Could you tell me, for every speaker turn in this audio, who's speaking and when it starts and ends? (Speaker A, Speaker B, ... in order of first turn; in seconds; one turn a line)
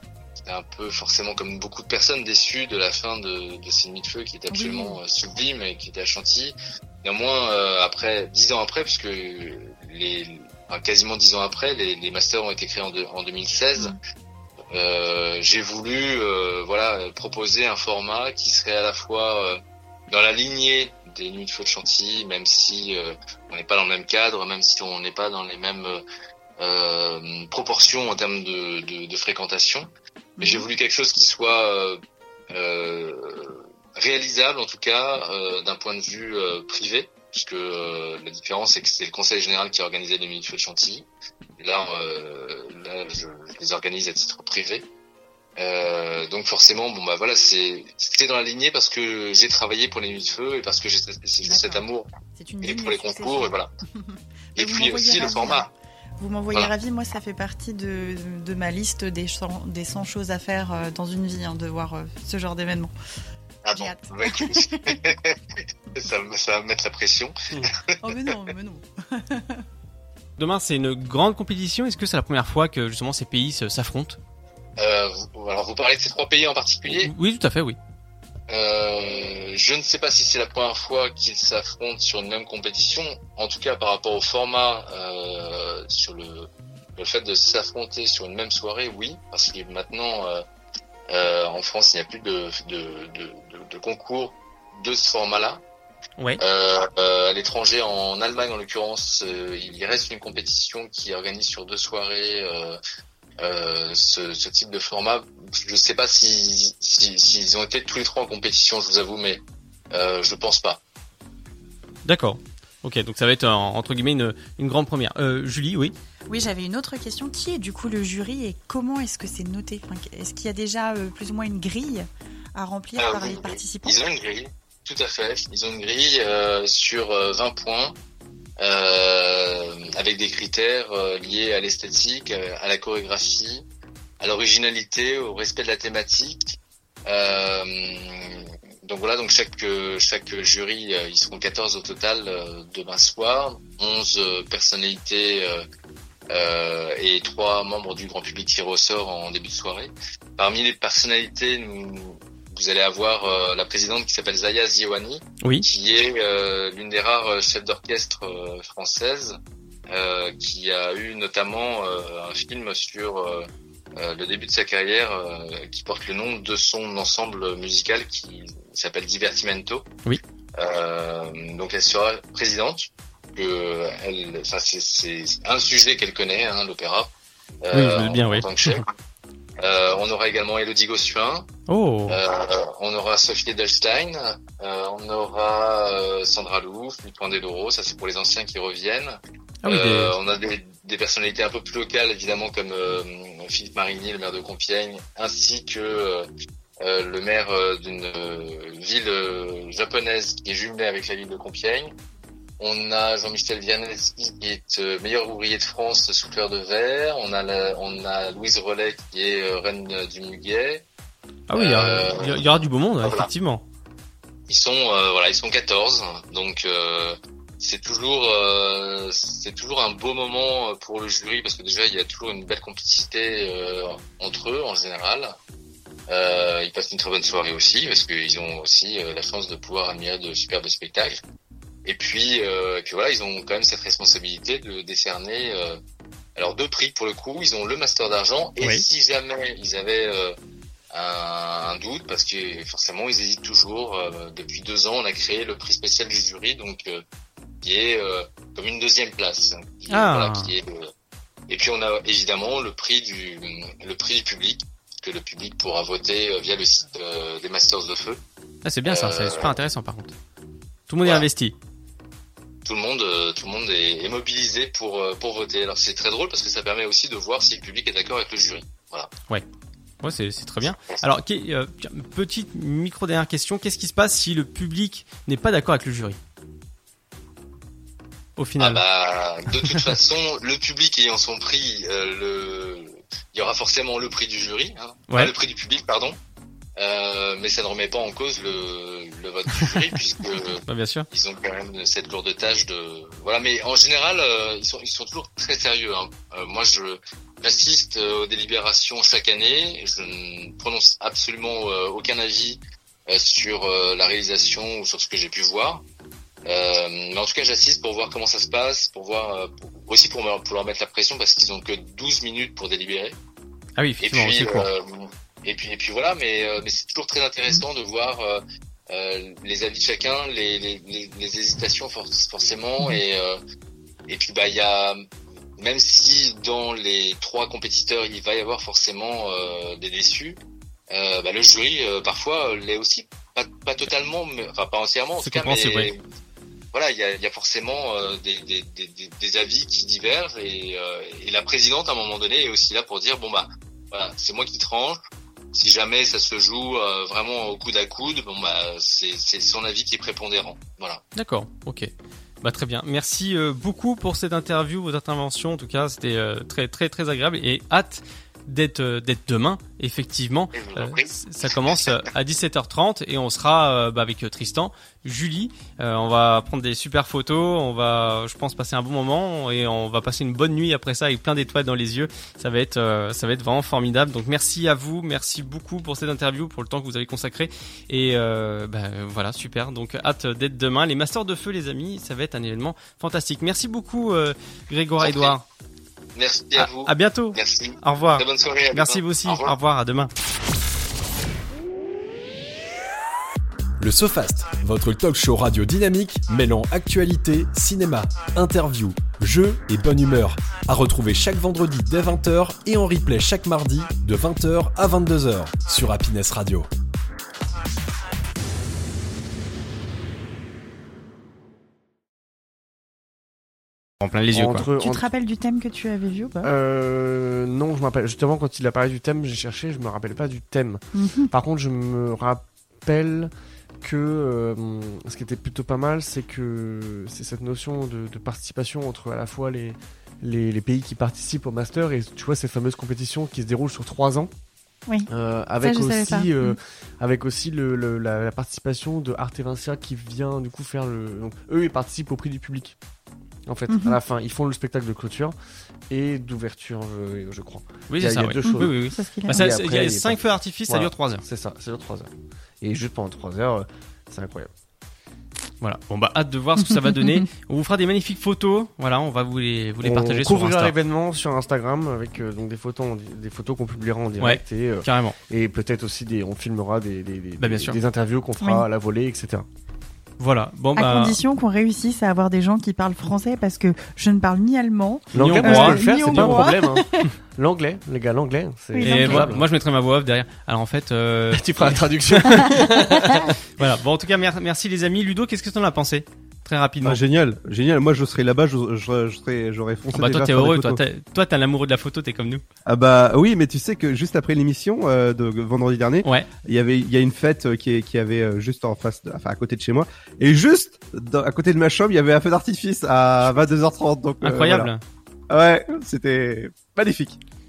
Speaker A: 0.4-13.9
Speaker B: 4.5-5.0
Speaker A: 14.7-19.6
Speaker A: 20.1-26.0
Speaker A: 26.6-29.9
Speaker B: 30.4-30.7
Speaker A: 30.4-32.0
Speaker A: 32.5-41.0
Speaker A: 41.6-44.9
Speaker A: 45.6-52.1
Speaker B: 51.4-51.8
Speaker B: 52.4-55.7
Speaker A: 52.6-53.7
Speaker A: 54.5-55.7
Speaker B: 56.2-62.9
Speaker A: 63.6-65.4
Speaker B: 63.7-65.0
Speaker A: 65.9-68.3
Speaker B: 68.0-69.6
Speaker C: 70.4-74.2
Speaker A: 74.8-77.1
Speaker C: 76.8-77.8
Speaker A: 78.5-90.4
Speaker A: 91.1-95.6
Speaker A: 96.4-102.8
Speaker A: 103.4-110.8
Speaker C: 112.0-115.9
Speaker B: 116.3-124.0
Speaker A: 123.0-128.0
Speaker A: 128.6-133.6
Speaker A: 134.2-145.6
Speaker A: 146.3-159.4
Speaker C: 155.4-155.7
Speaker A: 159.9-169.9
Speaker A: 170.5-177.1
Speaker A: 177.6-178.9
Speaker C: 177.7-178.8
Speaker A: 179.6-181.5
Speaker C: 181.7-182.2
Speaker A: 182.1-196.3
Speaker C: 189.6-190.1
Speaker A: 196.8-201.9
Speaker A: 202.6-210.8
Speaker C: 211.5-213.6
Speaker A: 211.5-213.3
Speaker A: 214.5-225.3
Speaker A: 226.1-231.2
Speaker A: 231.8-235.8
Speaker A: 236.3-240.3
Speaker A: 240.9-247.0
Speaker A: 247.6-250.9
Speaker C: 249.9-250.5
Speaker A: 251.5-258.2
Speaker C: 258.6-260.1
Speaker A: 258.9-259.5
Speaker C: 260.9-261.5
Speaker A: 262.6-269.1
Speaker C: 270.0-276.2
Speaker C: 278.4-278.8
Speaker A: 278.6-286.2
Speaker A: 286.8-305.8
Speaker C: 290.7-291.1
Speaker A: 306.4-313.1
Speaker C: 313.8-314.7
Speaker A: 314.0-323.4
Speaker A: 324.1-325.1
Speaker A: 325.6-330.4
Speaker A: 330.9-336.0
Speaker C: 335.2-335.9
Speaker A: 336.7-345.0
Speaker A: 345.5-351.0
Speaker C: 351.1-351.9
Speaker C: 352.4-385.4
Speaker A: 360.5-361.9
Speaker A: 385.0-385.4
Speaker A: 386.1-389.5
Speaker C: 386.6-390.1
Speaker D: 393.8-406.7
Speaker C: 414.0-414.7
Speaker E: 414.3-415.0
Speaker B: 414.8-416.5
Speaker E: 416.4-434.3
Speaker B: 420.9-421.3
Speaker E: 435.1-442.8
Speaker B: 435.6-436.6
Speaker E: 443.4-445.4
Speaker B: 443.7-444.0
Speaker E: 445.9-454.5
Speaker C: 447.9-451.2
Speaker B: 448.4-449.5
Speaker C: 455.6-460.7
Speaker B: 456.9-457.2
Speaker E: 459.8-469.5
Speaker C: 464.2-465.1
Speaker C: 467.4-467.8
Speaker B: 468.4-468.6
Speaker C: 470.2-471.2
Speaker B: 470.8-477.1
Speaker E: 475.1-479.4
Speaker C: 475.1-476.4
Speaker B: 478.7-479.3
Speaker C: 478.8-487.0
Speaker E: 481.3-483.2
Speaker F: 486.8-490.8
Speaker C: 489.9-492.4
Speaker F: 492.6-504.7
Speaker C: 504.2-504.8
Speaker F: 505.3-507.2